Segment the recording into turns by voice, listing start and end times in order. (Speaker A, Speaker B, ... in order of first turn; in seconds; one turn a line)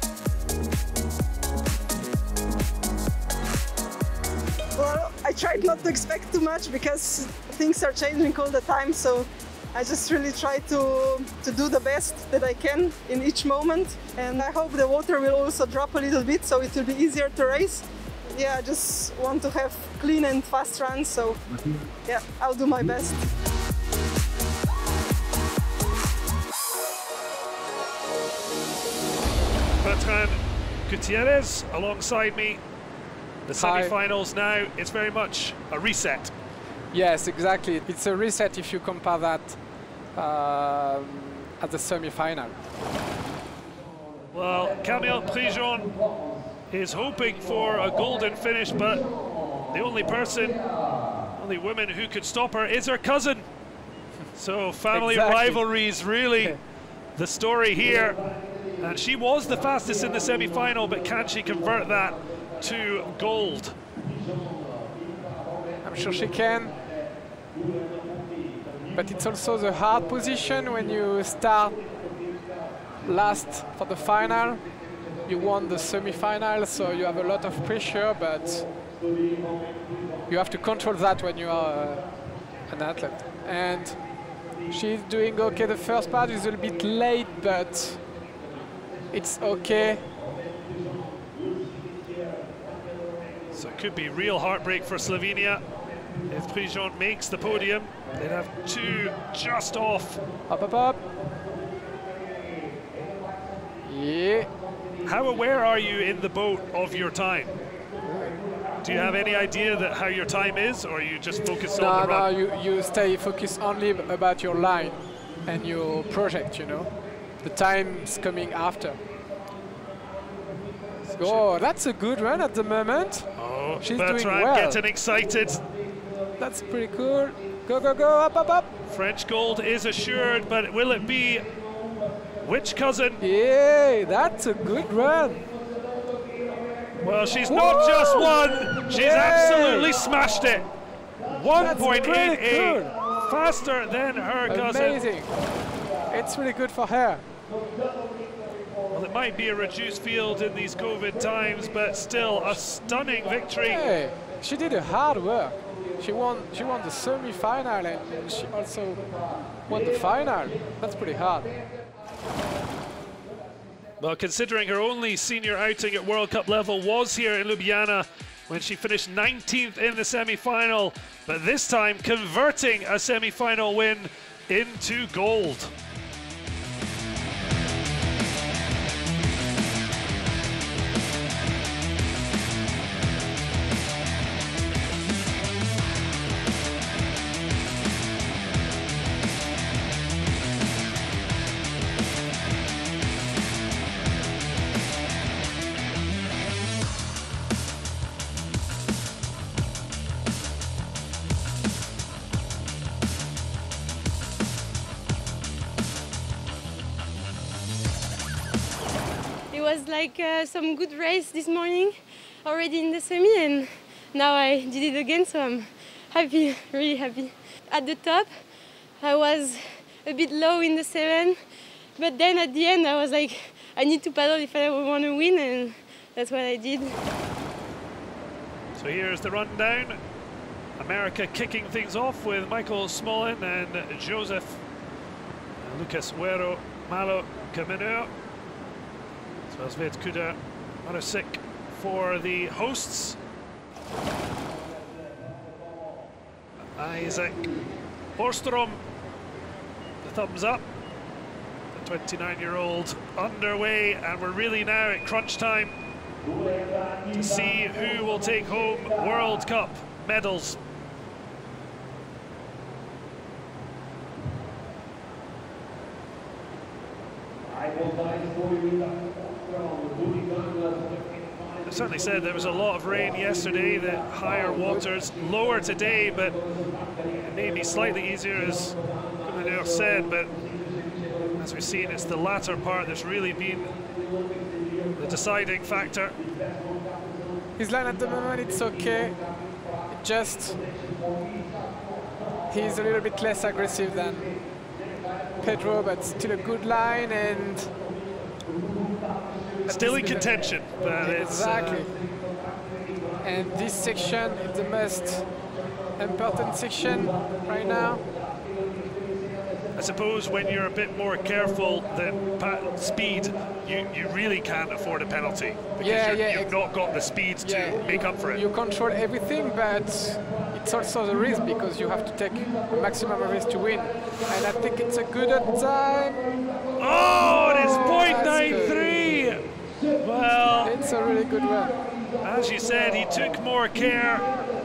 Speaker A: 4.8-21.4
Speaker A: 22.1-23.2
Speaker B: 29.8-32.6
Speaker B: 33.5-36.3
Speaker C: 33.5-33.9
Speaker C: 36.9-39.6
Speaker C: 40.1-42.6
Speaker B: 44.3-45.9
Speaker B: 46.7-49.0
Speaker B: 49.7-50.6
Speaker B: 51.4-53.5
Speaker B: 54.3-56.5
Speaker C: 54.9-55.6
Speaker B: 57.1-58.2
Speaker B: 58.8-63.7
Speaker C: 65.8-66.8
Speaker C: 68.9-71.8
Speaker C: 73.0-74.6
Speaker C: 75.3-78.7
Speaker C: 80.3-82.1
Speaker C: 82.7-84.0
Speaker C: 84.7-88.0
Speaker C: 89.1-90.0
Speaker B: 93.5-95.6
Speaker B: 96.3-100.2
Speaker C: 100.5-101.0
Speaker C: 103.8-104.5
Speaker B: 105.0-107.5
Speaker B: 108.8-112.3
Speaker C: 111.8-119.0
Speaker B: 121.0-121.5
Speaker C: 121.2-123.3
Speaker B: 123.3-125.6
Speaker C: 123.8-124.8
Speaker C: 126.4-128.7
Speaker B: 128.9-131.4
Speaker B: 132.4-133.2
Speaker C: 133.2-135.5
Speaker B: 137.0-140.7
Speaker C: 137.5-139.9
Speaker B: 141.3-145.0
Speaker C: 141.5-142.9
Speaker C: 144.5-145.3
Speaker C: 146.1-147.2
Speaker B: 148.9-153.8
Speaker C: 153.6-159.0
Speaker C: 159.7-161.5
Speaker B: 164.0-175.7
Speaker D: 209.5-218.4
Speaker D: 219.0-221.4
Speaker D: 221.9-226.9
Speaker B: 228.8-230.0
Speaker B: 230.8-234.6
Speaker B: 235.6-238.1
Speaker B: 239.5-243.2
Speaker B: 246.8-247.6
Speaker B: 248.2-248.8
Speaker B: 250.0-250.6
Speaker B: 251.7-255.7
Speaker B: 257.1-260.6
Speaker B: 271.6-276.4
Speaker B: 277.2-280.4
Speaker B: 281.4-283.7
Speaker B: 285.0-286.1
Speaker C: 287.6-289.2
Speaker C: 289.9-290.6
Speaker C: 292.5-294.3
Speaker C: 295.4-297.7
Speaker C: 299.7-301.9
Speaker B: 299.7-301.9
Speaker C: 303.2-305.3
Speaker C: 306.0-308.1
Speaker B: 309.8-318.4
Speaker C: 315.8-316.6
Speaker C: 317.4-326.3
Speaker B: 326.8-329.4
Speaker C: 327.6-328.9
Speaker B: 330.0-330.8
Speaker C: 330.6-331.8
Speaker B: 332.2-334.3